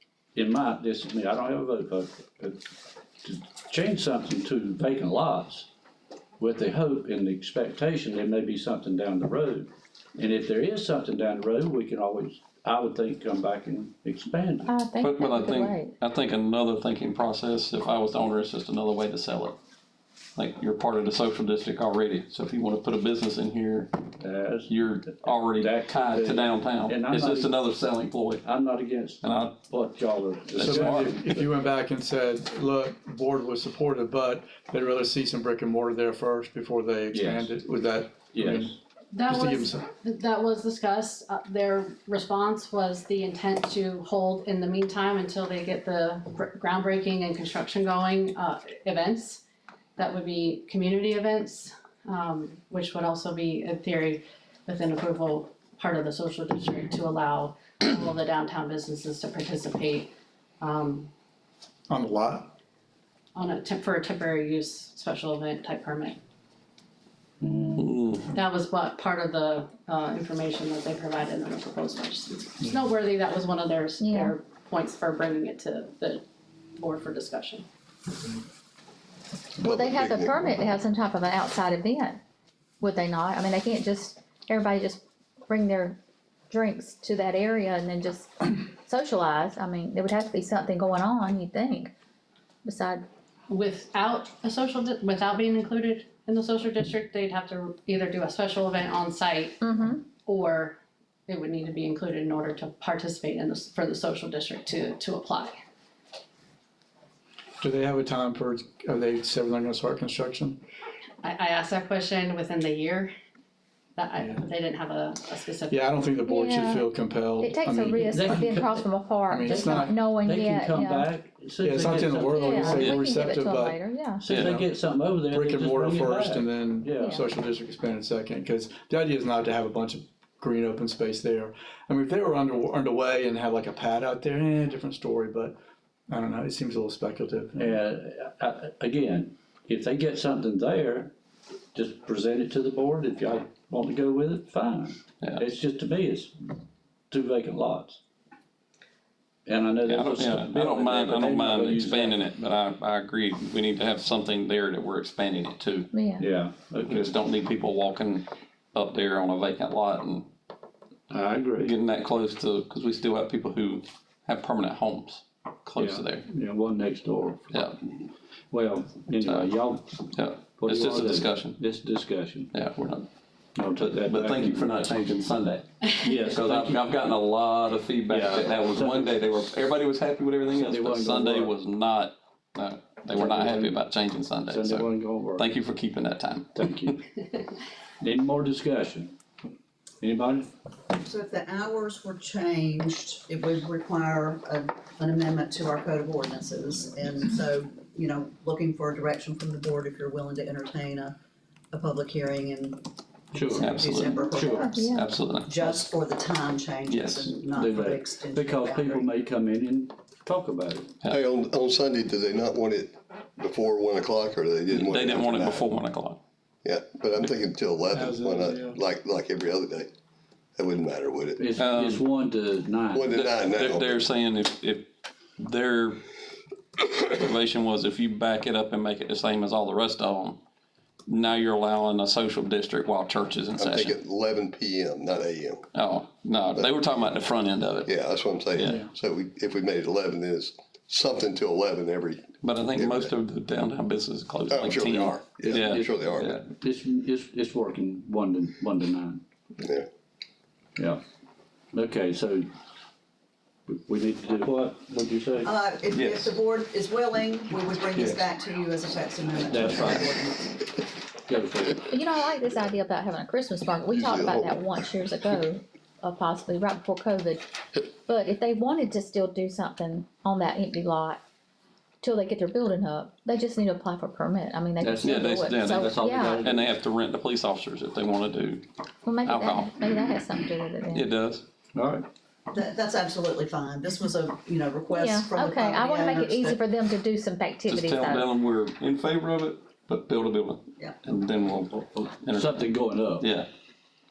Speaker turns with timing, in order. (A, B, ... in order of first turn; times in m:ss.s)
0:00.4-0:02.6 A
0:03.2-0:05.7 A
0:06.4-0:14.7 A
0:14.7-0:16.0 B
0:15.0-0:19.6 C
0:20.4-0:23.9 C
0:24.2-0:27.6 A
0:24.7-0:28.5 C
0:28.4-0:31.5 A
0:29.2-0:29.6 C
0:30.5-0:31.1 C
0:30.6-0:38.8 D
0:37.1-0:37.6 A
0:38.3-0:38.8 A
0:39.1-0:49.4 E
0:39.3-0:39.8 D
0:50.0-1:01.1 E
1:01.9-1:02.5 D
1:03.4-1:06.2 E
1:07.8-1:08.4 C
1:08.3-1:16.2 E
1:14.0-1:14.4 B
1:16.8-1:17.7 E
1:19.6-1:22.2 B
1:19.6-1:20.6 F
1:22.8-1:26.0 B
1:26.5-1:31.9 B
1:32.6-1:33.1 B
1:33.5-1:39.6 E
1:39.6-1:40.1 B
1:40.1-1:45.6 E
1:47.6-1:50.6 D
1:51.2-1:53.1 E
1:54.0-1:56.0 E
1:54.2-1:54.4 D
1:55.7-1:58.5 D
1:56.2-2:01.1 B
1:58.0-1:58.9 A
1:59.3-2:00.0 D
1:59.4-2:02.9 A
2:01.6-2:04.7 D
2:02.3-2:04.3 B
2:04.2-2:07.2 A
2:04.3-2:04.6 C
2:05.2-2:15.6 D
2:07.0-2:07.2 B
2:16.1-2:17.8 D
2:17.6-2:21.1 A
2:21.7-2:26.4 A
2:27.1-2:28.0 A
2:29.5-2:32.3 A
2:29.8-2:35.9 C
2:35.9-2:36.3 B
2:36.2-2:37.1 A
2:36.8-2:40.3 C
2:41.1-2:41.7 A
2:41.6-2:46.3 C
2:45.8-2:47.9 A
2:47.5-2:47.8 C
2:48.5-2:50.0 A
2:49.2-2:49.5 C
2:50.1-2:51.6 C
2:50.6-2:52.5 A
2:52.5-2:53.1 C
2:53.6-2:54.7 A
2:53.7-2:55.7 C
2:56.0-2:56.8 A
2:56.3-3:07.0 C
2:58.1-2:59.3 A
3:00.5-3:01.5 A
3:03.1-3:03.8 A
3:04.5-3:05.5 A
3:06.6-3:07.0 A
3:08.0-3:09.1 A
3:10.0-3:10.5 A
3:11.0-3:21.2 G
3:21.7-3:22.8 G
3:23.3-3:23.7 A
3:23.4-3:29.1 G
3:23.6-3:25.8 C
3:24.3-3:24.6 A
3:24.6-3:25.2 B
3:26.9-3:27.4 C
3:27.5-3:31.0 A
3:31.1-3:35.7 F
3:34.7-3:36.2 C
3:36.6-3:39.9 F
3:37.9-3:38.8 D
3:40.6-3:41.4 F
3:41.4-3:43.1 A
3:41.6-3:42.1 C
3:42.9-3:44.0 F
3:43.1-3:46.0 C
3:47.0-3:50.4 C
3:51.1-3:54.0 C
3:53.6-3:55.6 F
3:55.7-3:57.9 C
3:56.6-3:56.9 F
3:57.9-4:03.1 F
3:58.6-3:58.8 C
3:58.6-3:58.9 D
4:02.4-4:06.4 C
4:04.5-4:06.4 F
4:05.4-4:09.2 A
4:09.6-4:09.9 F
4:11.7-4:12.5 A
4:13.7-4:15.5 A
4:15.4-4:20.7 G
4:15.9-4:16.3 C
4:18.0-4:18.2 C
4:19.5-4:20.1 A
4:21.3-4:21.8 A
4:21.8-4:31.2 B
4:23.9-4:24.7 F
4:32.0-4:36.4 B
4:34.8-4:36.8 A
4:35.0-4:38.6 C
4:39.0-4:41.2 B
4:39.2-4:40.1 C
4:40.9-4:41.4 C
4:41.8-4:42.1 A
4:42.5-4:46.6 G
4:44.9-4:48.4 B
4:47.7-4:53.5 C
4:52.2-4:53.3 A